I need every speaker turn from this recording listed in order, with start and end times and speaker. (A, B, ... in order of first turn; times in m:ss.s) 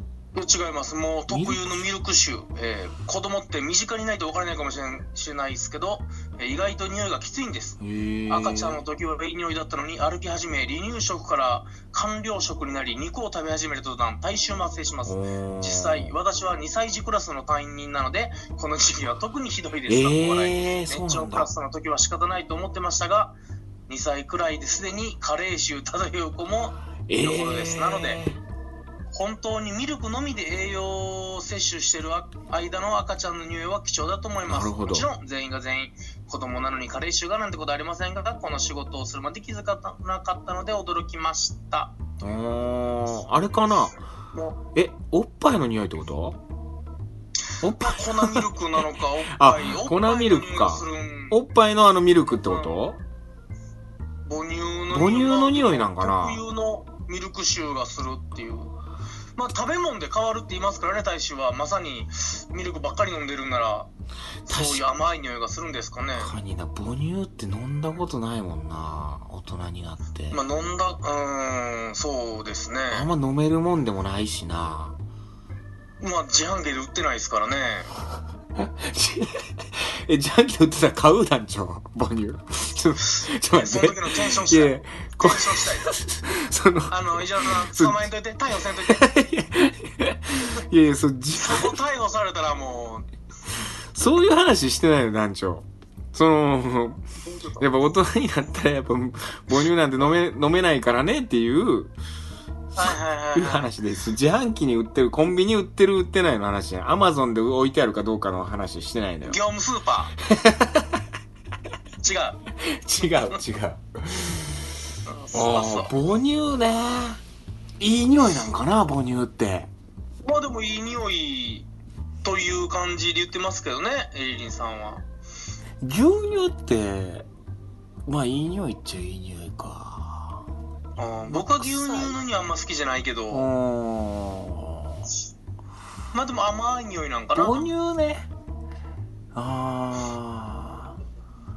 0:00.3-0:23.3 A
0:01.3-0:01.8 B
0:07.8-0:08.8 B
0:15.0-0:16.1 B
0:19.9-0:21.5 B
0:23.9-0:28.2 A
0:27.1-0:28.4 B
0:29.1-0:42.1 A
0:34.5-0:35.1 B
0:42.2-0:44.0 B
0:44.3-0:44.6 A
0:44.7-0:46.4 B
0:47.6-0:53.0 B
0:47.8-0:51.4 A
0:52.4-0:52.7 A
0:54.2-0:58.7 A
0:54.9-0:56.4 B
0:59.4-1:03.9 A
1:04.4-1:06.3 A
1:04.5-1:04.9 B
1:06.2-1:10.4 B
1:10.3-1:13.1 A
1:12.9-1:15.0 B
1:16.0-1:17.9 A
1:18.6-1:28.1 B
1:23.1-1:25.9 A
1:26.9-1:29.0 A
1:28.8-1:31.8 B
1:31.4-1:33.0 A
1:33.9-1:37.0 B
1:37.2-1:37.6 A
1:37.6-1:41.9 B
1:42.7-1:49.4 B
1:42.8-1:43.7 A
1:49.2-1:50.1 A
1:50.2-1:51.0 B
1:52.0-1:52.4 A
1:52.6-1:54.7 B
1:55.0-1:55.9 A
1:55.3-1:57.2 B
1:57.8-1:59.7 B
2:00.2-2:01.7 A
2:02.2-2:05.0 A
2:05.8-2:07.3 B
2:08.0-2:10.4 B
2:11.0-2:13.5 A
2:11.3-2:12.2 B
2:13.3-2:15.1 B
2:16.1-2:17.7 A
2:17.4-2:18.3 B
2:19.3-2:21.0 B